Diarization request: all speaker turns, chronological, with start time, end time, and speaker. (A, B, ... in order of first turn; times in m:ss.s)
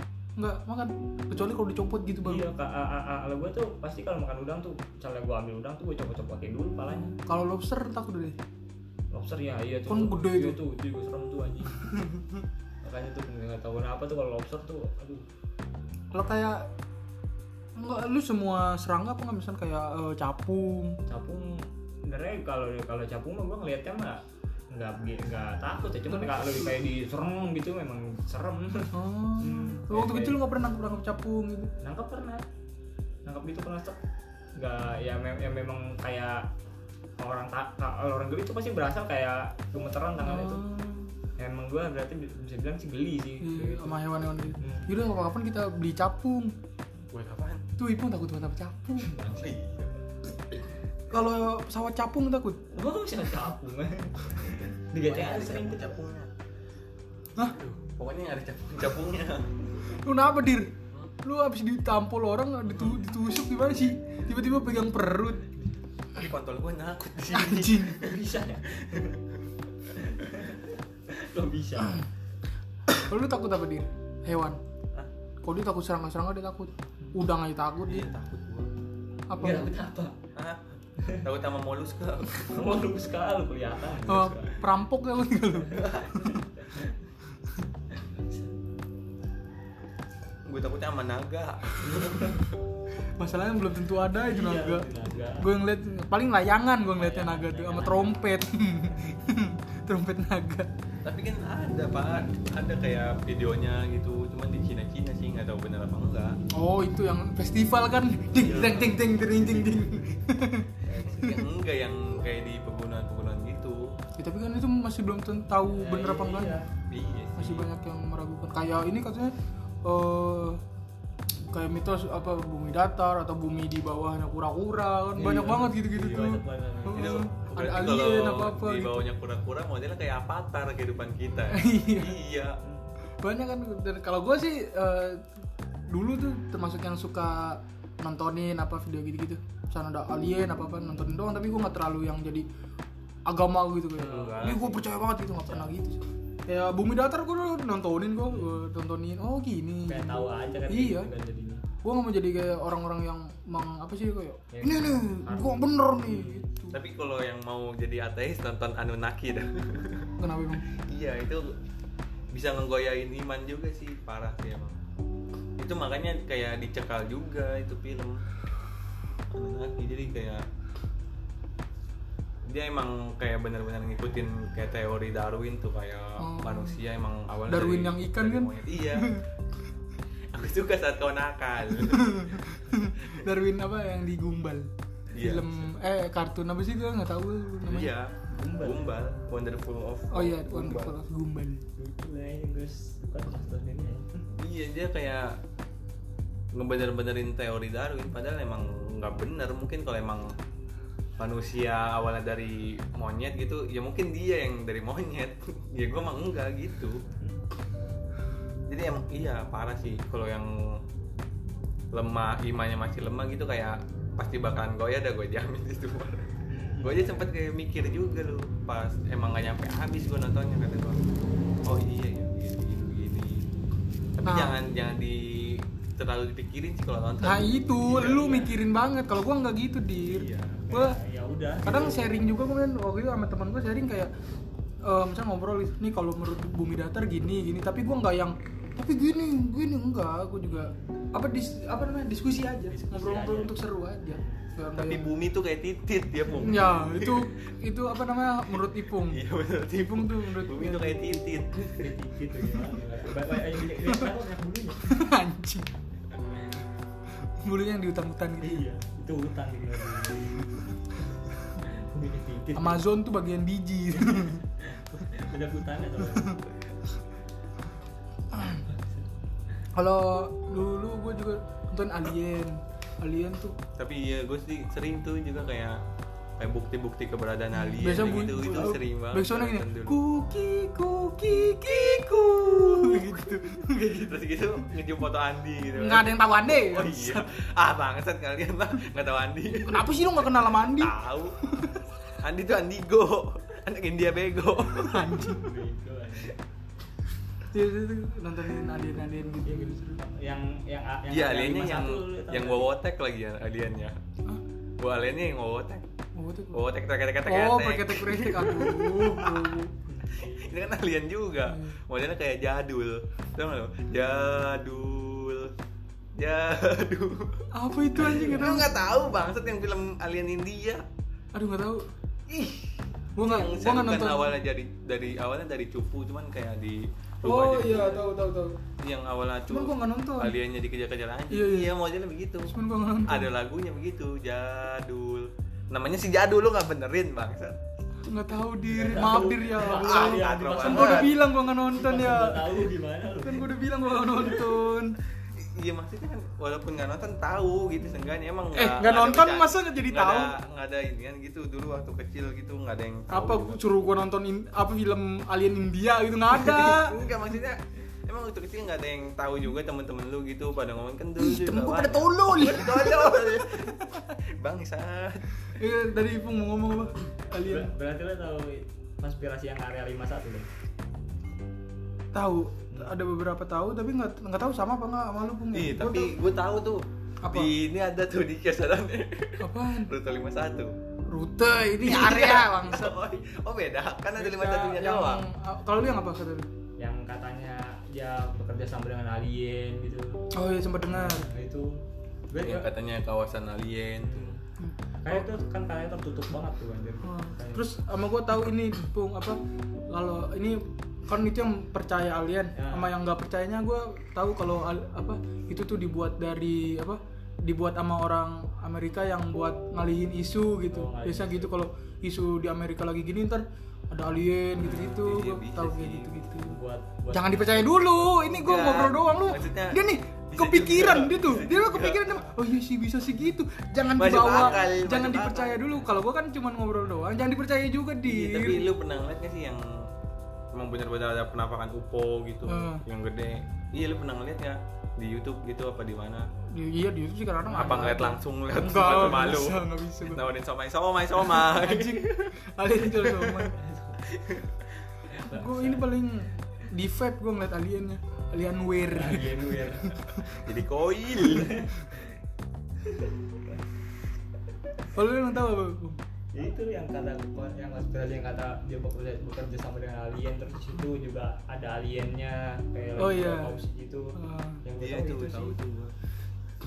0:00.4-0:02.5 A
0:02.2-0:07.2 B
0:07.1-0:08.4 A
0:09.1-0:12.0 B
0:09.9-0:10.6 A
0:11.8-0:12.2 A
0:12.8-0:15.3 B
0:16.1-0:16.7 A
0:17.8-0:21.0 A
0:21.1-0:30.4 B
0:26.1-0:26.8 A
0:28.9-0:31.7 A
0:31.8-0:32.4 B
0:33.2-0:34.0 B
0:34.6-0:36.5 B
0:37.2-0:40.6 B
0:40.2-0:41.1 A
0:41.4-0:44.0 B
0:43.4-0:46.5 A
0:44.6-0:44.9 B
0:47.1-0:47.6 C
0:47.8-0:49.1 A
0:49.0-0:49.5 B
0:49.3-0:49.9 C
0:51.1-0:52.6 A
0:52.7-0:55.9 B
0:55.0-0:56.3 C
0:57.4-0:59.9 C
1:00.0-1:05.4 A
1:06.1-1:09.4 C
1:07.3-1:08.0 A
1:08.0-1:09.2 B
1:09.9-1:12.0 B
1:12.9-1:14.6 A
1:15.4-1:18.1 A
1:17.9-1:18.7 C
1:19.3-1:19.7 A
1:19.4-1:20.2 B
1:20.4-1:20.6 C
1:21.0-1:21.2 B
1:21.2-1:22.7 C
1:22.4-1:24.6 B
1:24.1-1:26.4 A
1:25.8-1:27.0 B
1:27.9-1:28.6 B
1:30.5-1:32.4 C
1:31.8-1:32.5 B
1:33.2-1:34.9 A
1:34.2-1:35.5 B
1:35.4-1:40.7 A
1:36.9-1:38.2 B
1:41.0-1:46.4 C
1:46.5-1:51.4 A
1:48.4-1:49.7 C
1:48.5-1:48.9 B
1:50.9-1:51.3 B
1:50.9-1:53.9 C
1:54.2-1:56.6 A
1:55.7-1:56.7 B
1:56.9-1:57.7 C
1:57.4-2:00.6 A
2:01.5-2:09.0 A
2:05.2-2:07.4 B
2:05.9-2:06.4 C
2:06.9-2:12.6 C
2:11.5-2:12.2 A
2:12.6-2:12.9 B
2:13.2-2:15.3 A
2:15.9-2:22.5 A
2:23.3-2:31.1 A
2:24.0-2:25.0 C
2:28.3-2:28.6 B
2:29.9-2:31.6 B
2:31.8-2:36.8 A
2:34.5-2:36.4 B
2:36.7-2:40.1 C
2:40.2-2:40.6 A
2:40.8-2:41.6 C
2:42.3-2:44.8 C
2:45.6-2:48.2 C
2:49.3-2:50.4 C
2:52.5-2:59.1 C
2:56.2-2:56.8 A
2:57.5-2:59.2 A
3:00.3-3:02.4 C
3:01.8-3:07.9 A
3:05.1-3:05.6 C
3:07.6-3:10.9 C
3:08.3-3:09.0 B
3:10.1-3:11.7 A
3:11.8-3:14.3 B
3:14.4-3:15.4 C
3:16.5-3:20.4 C
3:21.2-3:27.0 C
3:28.7-3:30.8 C
3:31.9-3:41.0 C
3:36.5-3:37.3 B
3:41.6-3:43.5 C
3:44.2-3:48.4 C
3:44.2-3:44.6 A
3:47.2-3:51.0 A
3:48.0-3:48.5 B
3:50.0-3:50.7 C
3:50.7-3:52.0 B
3:51.6-3:54.1 A
3:54.8-4:05.1 A
4:00.5-4:00.7 B
4:02.7-4:03.6 B
4:04.1-4:04.5 B
4:04.8-4:07.3 C
4:06.4-4:11.2 A
4:09.0-4:11.9 C
4:11.7-4:14.9 B
4:14.9-4:15.7 A
4:17.4-4:18.6 A
4:18.4-4:20.5 B
4:21.6-4:22.8 B
4:22.6-4:24.4 A
4:23.9-4:26.4 B
4:28.6-4:29.1 B
4:29.8-4:33.6 A
4:33.8-4:35.8 C
4:36.4-4:40.0 C
4:37.6-4:44.2 A
4:38.3-4:38.7 B
4:41.5-4:43.2 C
4:43.8-4:51.6 C
4:45.8-4:47.3 A
4:49.5-4:51.8 A
4:52.2-4:55.2 C
4:54.7-4:55.5 A
4:55.2-4:56.4 B
4:57.5-5:00.0 A
4:59.4-5:02.7 B
5:01.1-5:04.0 C
5:04.8-5:05.9 C
5:06.2-5:06.6 A
5:06.5-5:09.6 C
5:07.2-5:09.7 A
5:09.9-5:10.5 B
5:10.2-5:15.5 C
5:11.5-5:11.8 A
5:16.2-5:20.8 C
5:17.5-5:18.7 A
5:21.3-5:21.9 A
5:22.3-5:28.1 C
5:23.2-5:24.4 A
5:27.2-5:28.6 A
5:28.8-5:32.5 C
5:29.5-5:30.4 A
5:31.3-5:31.7 A
5:32.5-5:33.3 A
5:33.1-5:37.6 C
5:38.0-5:42.7 A
5:38.7-5:43.5 B
5:39.6-5:41.2 C
5:43.2-5:45.0 A
5:44.1-5:44.4 B
5:45.2-5:53.8 C
5:48.5-5:50.3 A
5:53.1-5:57.0 A
5:56.4-6:05.4 C
6:01.2-6:04.1 A
6:05.5-6:07.7 A
6:07.3-6:10.5 B
6:12.1-6:16.1 A
6:15.5-6:20.7 C
6:17.2-6:17.5 A
6:19.4-6:19.9 A
6:21.1-6:23.0 A
6:21.8-6:25.3 C
6:24.2-6:26.5 A
6:26.8-6:30.2 B
6:30.3-6:31.3 A
6:30.9-6:31.8 B
6:32.3-6:32.7 B
6:32.4-6:34.4 C
6:34.0-6:34.4 B
6:34.6-6:35.3 A
6:35.0-6:37.7 B
6:37.0-6:56.6 A
6:42.6-6:43.0 B
6:50.7-6:51.5 B
6:54.6-6:56.4 C
6:56.4-6:58.1 B
6:57.1-7:08.7 A
6:58.2-7:02.3 C
7:04.0-7:05.8 C
7:04.2-7:04.8 B
7:08.0-7:09.9 C
7:10.5-7:16.3 C
7:12.5-7:12.8 A
7:16.5-7:20.2 A
7:17.5-7:18.0 B
7:17.6-7:23.5 C
7:21.2-7:23.6 A
7:23.5-7:24.1 B
7:24.1-7:24.7 C
7:25.1-7:25.9 B
7:25.2-7:30.4 A
7:28.9-7:30.0 B
7:30.3-7:31.6 C
7:31.2-7:32.2 B
7:32.8-7:33.6 B
7:34.9-7:36.0 A
7:36.3-7:45.6 B
7:43.0-7:43.6 A
7:44.2-7:44.6 A
7:44.8-7:45.9 C